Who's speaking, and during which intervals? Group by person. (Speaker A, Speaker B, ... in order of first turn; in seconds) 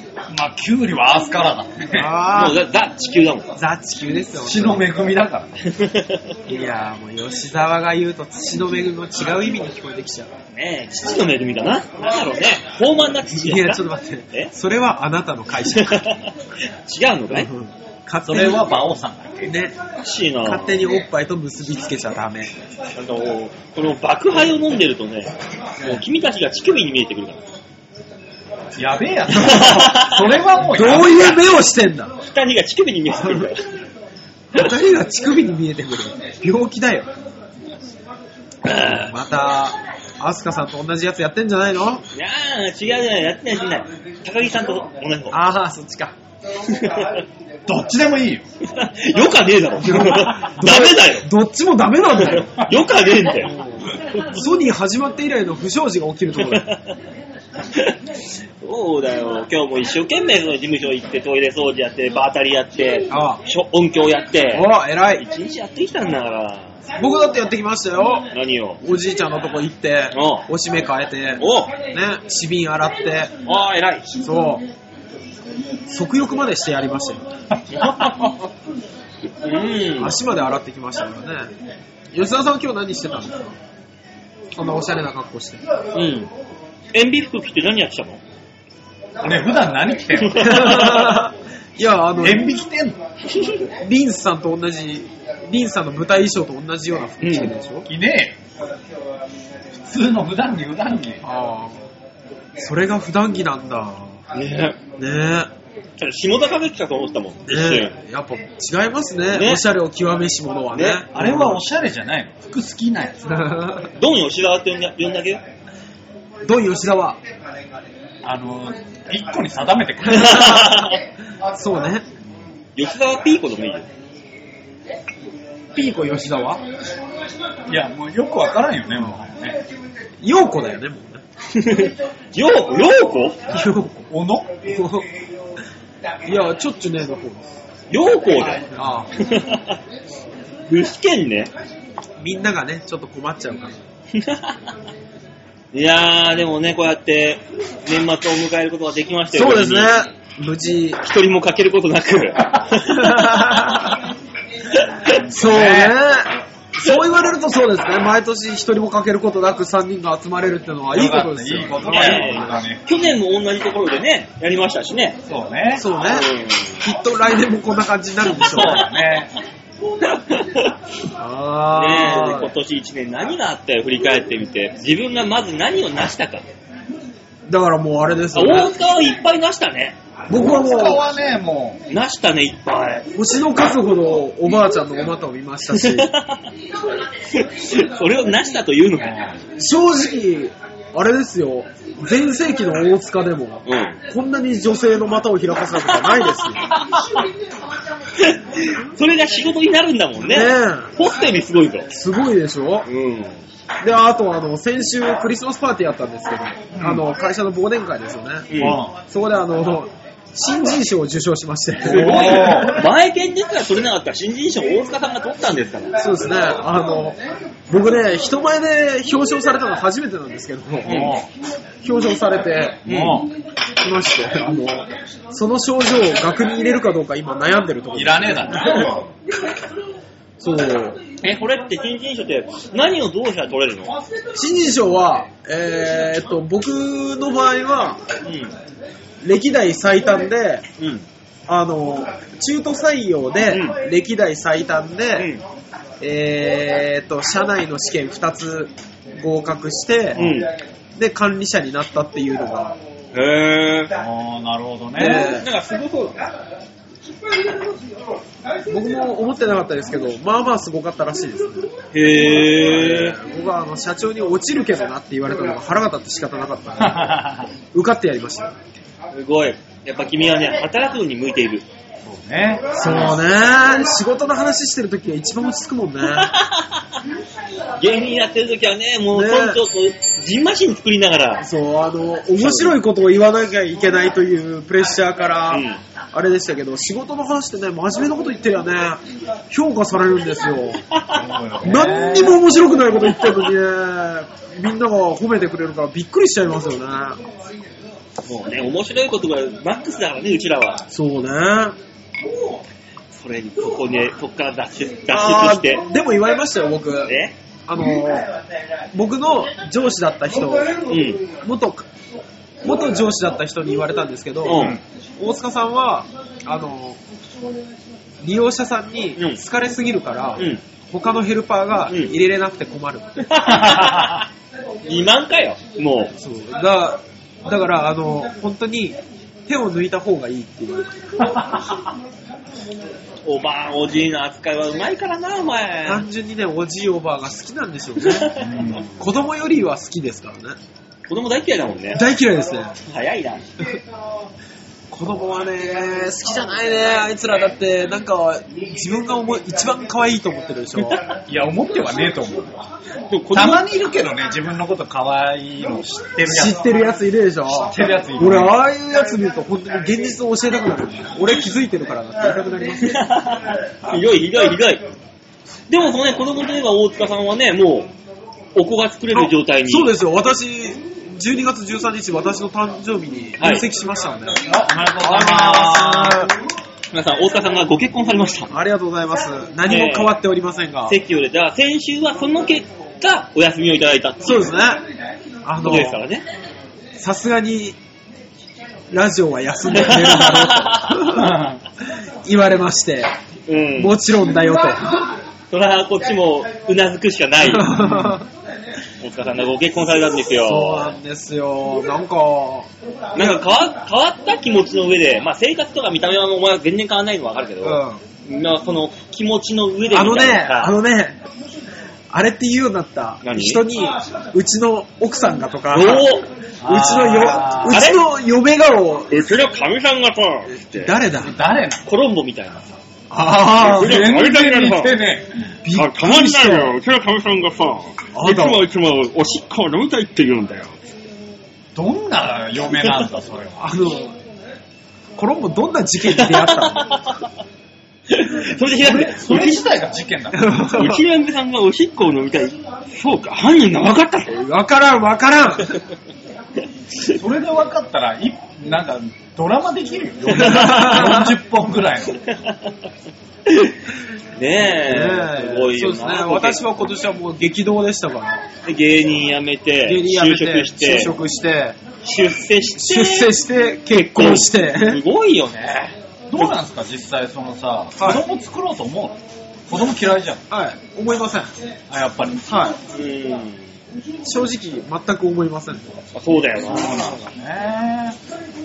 Speaker A: 0.3-2.1, 4.4-5.6, 18.2-19.6, 28.8-31.6, 47.7-48.5, 77.7-78.1, 89.2-91.1, 92.2-93.0, 97.9-98.4, 99.8-101.2, 111.1-113.2, 118.2-120.6, 127.7-129.6, 134.1-134.6, 155.1-156.0, 160.9-162.8, 165.3-165.9, 168.4-169.3, 180.3-181.8, 189.0-189.3, 206.7-207.0, 208.6-208.9, 211.8-212.8, 220.9-221.2, 222.9-223.3, 227.9-229.1, 253.9-255.3, 266.8-267.5, 272.1-273.1, 291.1-292.4, 314.5-314.8, 331.2-331.6, 338.4-338.9, 351.3-352.6, 353.3-356.8, 357.5-358.6, 374.4-376.3, 391.1-391.6, 397.8-398.1, 416.6-417.9, 421.2-421.9, 423.4-425.3, 431.8-433.7, 438.8-440.6, 447.1-452.2, 466.3-470.4, 471.9-472.4, 476.6-478.2
Speaker B: 1.9-2.6, 3.6-4.9, 6.5-10.3, 13.3-16.1, 17.3-18.7, 19.4-19.8, 20.4-22.5, 29.3-29.8, 30.7-32.1, 33.1-33.5, 34.5-37.1, 38.8-42.0, 45.3-46.1, 49.8-52.6, 53.4-56.7, 63.1-63.4, 64.5-65.2, 67.0-68.3, 68.8-73.3, 74.2-74.6, 75.9-77.3, 80.0-81.5, 82.1-83.6, 84.5-85.6, 90.4-92.5, 93.8-97.9, 101.2-101.8, 102.6-104.2, 105.0-105.5, 107.5-111.6, 113.2-113.9, 116.4-117.2, 120.1-121.0, 121.5-122.1, 125.7-126.6, 130.2-131.2, 133.5-134.1, 134.6-135.1, 136.2-137.6, 138.6-139.1, 142.2-143.8, 149.3-151.0, 152.9-154.0, 155.3-162.5, 165.8-166.3, 166.8-168.8, 171.2-172.5, 177.5-178.7, 180.3-181.0, 183.1-186.1, 189.6-196.6, 200.2-200.9, 201.9-202.9, 203.8-212.9, 216.0-217.2, 217.7-221.2, 221.8-222.9, 223.8-229.0, 230.4-231.0, 234.3-238.0, 239.2-240.6, 241.5-245.3, 246.0-250.4, 250.9-252.8, 254.9-255.5, 258.7-261.7, 262.3-268.5, 272.7-276.3, 279.1-279.6, 281.4-290.8, 291.6-297.2, 300.9-301.8, 305.1-308.3, 308.9-311.9, 312.6-317.0, 318.2-323.5, 326.2-330.9, 335.8-338.3, 338.8-340.6, 341.9-342.8, 344.9-351.0, 356.2-362.9, 369.1-374.4, 375.0-376.3, 378.5-381.0, 384.2-384.8, 385.4-386.0, 387.0-387.8, 388.9-391.4, 392.2-393.1, 393.8-395.1, 397.4-398.3, 400.4-403.4, 407.6-408.0, 409.9-411.2, 412.1-416.1, 416.6-419.4, 420.5-421.3, 423.1-424.1, 425.6-426.8, 428.1-428.7, 433.6-434.1, 435.1-436.9, 440.3-441.0, 444.3-445.8, 450.3-451.4, 454.8-458.4, 459.8-461.8, 462.8-465.0, 468.0-468.2, 470.5-471.5, 472.4-472.8, 474.2-476.0
Speaker C: 2.3-3.5, 5.7-6.3, 10.5-14.5, 15.7-17.5, 20.0-20.8, 22.9-27.4, 29.4-30.2, 32.2-33.7, 38.6-39.1, 42.1-45.4, 46.7-47.2, 48.6-51.2, 52.2-53.5, 56.4-56.9, 58.6-66.8, 68.3-68.8, 70.1-70.5, 71.4-71.7, 73.4-74.1, 79.4-80.2, 85.9-86.3, 86.9-88.2, 90.2-91.2, 93.4-93.6, 97.2-97.5, 104.3-104.8, 106.0-107.9, 109.3-109.6, 110.7-111.0, 114.0-115.4, 120.1-121.0, 122.8-123.9, 131.5-133.4, 137.9-139.8, 140.7-141.5, 144.1-144.6, 145.7-149.9, 151.0-154.0, 154.7-155.2, 161.8-165.2, 166.1-166.8, 168.4-168.9, 170.0-170.8, 171.8-176.4, 178.3-180.0, 181.9-183.1, 185.7-186.5, 187.3-189.3, 193.7-194.0, 196.0-197.1, 198.2-201.9, 202.9-203.4, 208.5-208.8, 211.9-216.0, 220.8-221.2, 222.9-223.2, 231.2-233.9, 238.2-238.5, 240.8-241.1, 243.5-243.8, 245.2-245.4, 250.2-250.5, 253.1-253.9, 255.0-256.3, 261.9-263.2, 269.1-271.6, 276.1-276.8, 277.8-281.4, 282.4-282.8, 285.5-285.8, 298.2-300.8, 303.1-305.8, 307.1-307.3, 310.9-311.2, 314.4-314.8, 319.2-319.4, 321.9-322.1, 323.3-324.3, 324.8-326.1, 333.2-336.1, 338.0-338.4, 341.1-342.0, 342.9-343.5, 353.1-353.6, 362.8-364.8, 365.7-367.9, 368.6-369.9, 373.4-373.7, 376.9-378.5, 379.7-380.2, 380.9-384.6, 385.6-386.3, 389.7-391.1, 393.5-393.9, 395.5-397.8, 399.0-400.9, 403.1-410.8, 413.2-413.6, 415.7-416.3, 417.6-418.1, 419.1-421.0, 421.8-422.7, 423.6-425.0, 425.7-430.8, 436.1-437.2, 438.1-439.7, 440.6-444.4, 450.3-451.0, 452.3-452.7, 453.5-453.8, 454.4-456.6, 458.6-461.1, 462.0-463.3, 464.1-465.9, 472.9-473.7, 476.1-477.2